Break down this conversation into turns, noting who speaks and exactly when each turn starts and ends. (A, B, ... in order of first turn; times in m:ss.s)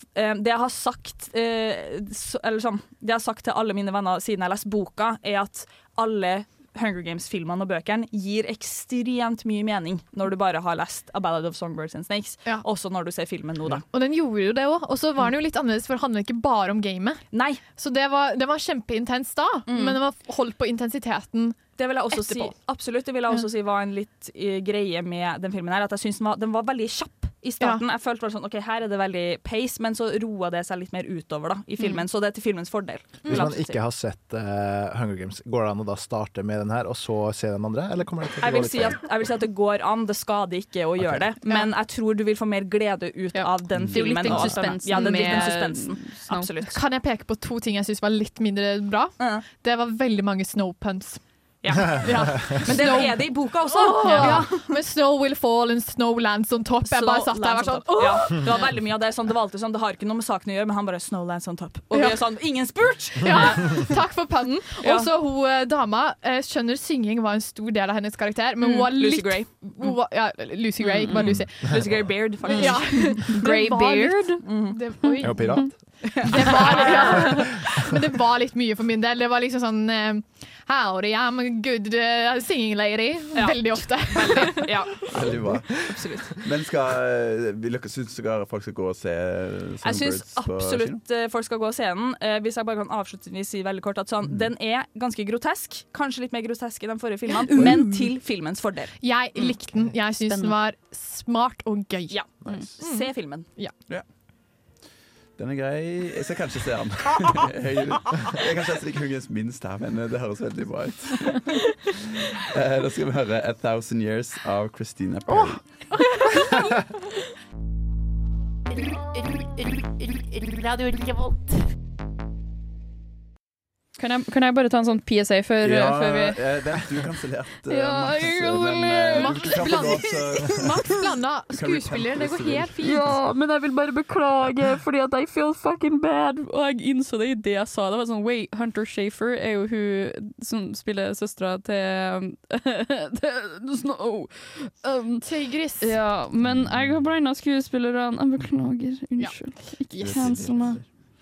0:00.1-0:13.8 A
0:13.9-0:17.2 B
0:17.3-0:17.6 A
0:17.7-0:21.6 B
0:19.7-0:20.0 A
0:21.8-0:33.8 A
0:22.1-0:22.5 B
0:33.2-0:39.0 C
0:38.4-0:46.8 A
0:43.4-0:46.5 D
0:43.7-0:44.6 E
0:45.0-0:45.5 B
0:46.7-0:51.2 B
0:49.2-0:49.4 A
0:51.6-0:54.7 A
0:51.8-0:58.5 B
0:54.0-0:54.4 D
0:56.8-1:03.9 A
1:01.9-1:02.2 B
1:03.2-1:11.6 B
1:04.8-1:05.1 A
1:08.6-1:09.9 A
1:11.0-1:13.4 A
1:11.0-1:11.4 D
1:12.4-1:15.6 B
1:12.4-1:14.4 D
1:14.4-1:14.8 A
1:15.0-1:15.7 D
1:15.2-1:15.7 C
1:16.0-1:17.4 A
1:16.2-1:24.7 B
1:16.7-1:17.2 D
1:17.3-1:17.8 C
1:23.3-1:26.3 A
1:25.1-1:31.0 E
1:29.8-1:38.9 A
1:37.5-1:37.8 D
1:39.0-1:42.1 B
1:40.2-1:40.5 D
1:42.1-1:43.5 A
1:42.8-1:43.7 B
1:45.4-1:55.6 E
1:56.2-1:56.5 D
1:59.4-2:01.4 D
2:04.0-2:06.4 D
2:05.6-2:10.9 E
2:07.7-2:11.0 D
2:09.1-2:13.0 B
2:11.5-2:13.1 E
2:12.8-2:25.3 D
2:25.2-2:26.0 B
2:25.8-2:30.8 D
2:26.4-2:27.0 E
2:29.2-2:30.4 B
2:30.0-2:30.8 E